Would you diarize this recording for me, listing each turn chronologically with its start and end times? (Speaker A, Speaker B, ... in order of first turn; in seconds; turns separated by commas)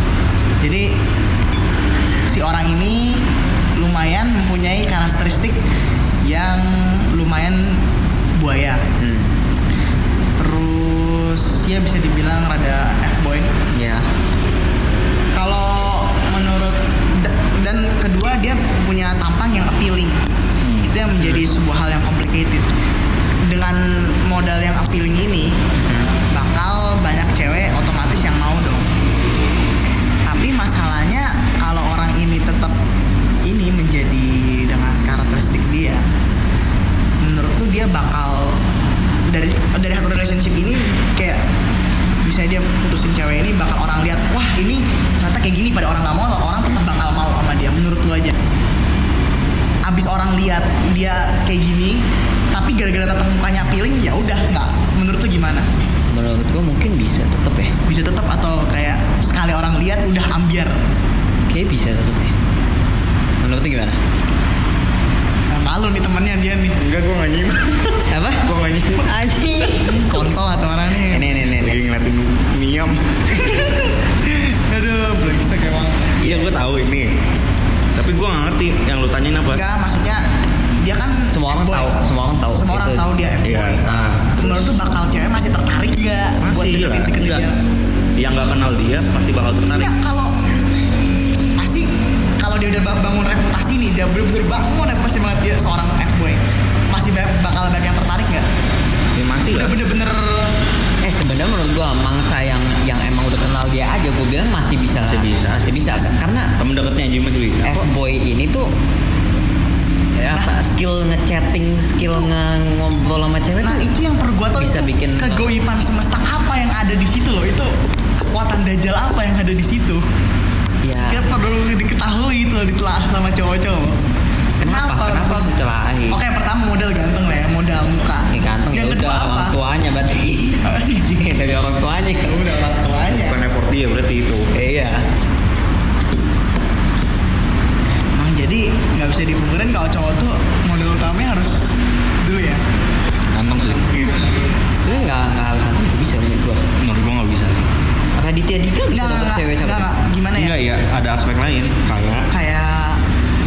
Speaker A: 0.6-0.9, Speaker A: 2.3-3.2, Speaker A: 3.8-5.6, Speaker A: 6.2-7.8, Speaker A: 8.4-8.8, Speaker B: 9.0-9.3, Speaker A: 10.4-13.5, Speaker B: 13.8-14.1, Speaker A: 15.3-20.3, Speaker C: 20.6-20.9, Speaker A: 20.9-22.7, Speaker A: 23.5-25.6, Speaker B: 25.8-26.1, Speaker A: 26.3-28.9, Speaker A: 30.2-32.8, Speaker A: 33.4-36.0, Speaker A: 37.2-38.6, Speaker A: 39.3-41.4, Speaker A: 42.2-48.4, Speaker A: 49.9-55.7, Speaker B: 56.1-57.8, Speaker A: 57.9-60.8, Speaker B: 61.5-62.4, Speaker B: 63.4-64.0, Speaker A: 65.5-66.8, Speaker C: 66.8-69.1, Speaker B: 68.1-68.5, Speaker B: 69.0-70.2, Speaker A: 69.9-71.3, Speaker B: 71.0-71.8, Speaker C: 71.5-73.5, Speaker A: 73.3-76.2, Speaker C: 76.2-77.1, Speaker C: 78.0-79.6, Speaker A: 79.5-80.2, Speaker A: 80.8-82.0, Speaker B: 81.3-83.0, Speaker A: 82.5-83.8, Speaker C: 83.4-84.5, Speaker B: 83.9-84.2, Speaker A: 84.4-87.6, Speaker C: 86.4-87.5, Speaker C: 88.2-90.0, Speaker A: 89.8-90.8, Speaker A: 91.6-96.4, Speaker A: 96.9-98.5, Speaker C: 99.2-99.8, Speaker A: 99.5-100.5, Speaker B: 101.0-106.5, Speaker C: 105.0-107.9, Speaker B: 107.6-108.7, Speaker B: 110.2-113.9, Speaker A: 113.6-120.0, Speaker B: 114.6-115.5, Speaker B: 120.8-121.2, Speaker A: 121.1-124.0, Speaker B: 124.6-126.2, Speaker A: 124.6-125.5, Speaker A: 126.1-129.6, Speaker B: 128.3-132.4, Speaker A: 130.6-131.3, Speaker A: 132.2-133.4, Speaker C: 133.1-134.5, Speaker B: 134.5-135.1, Speaker A: 138.2-142.6, Speaker C: 143.3-144.2, Speaker A: 143.8-144.3, Speaker B: 144.8-146.7, Speaker C: 146.8-147.7, Speaker B: 148.2-149.9, Speaker A: 148.9-150.6, Speaker C: 150.3-152.3, Speaker A: 152.3-153.0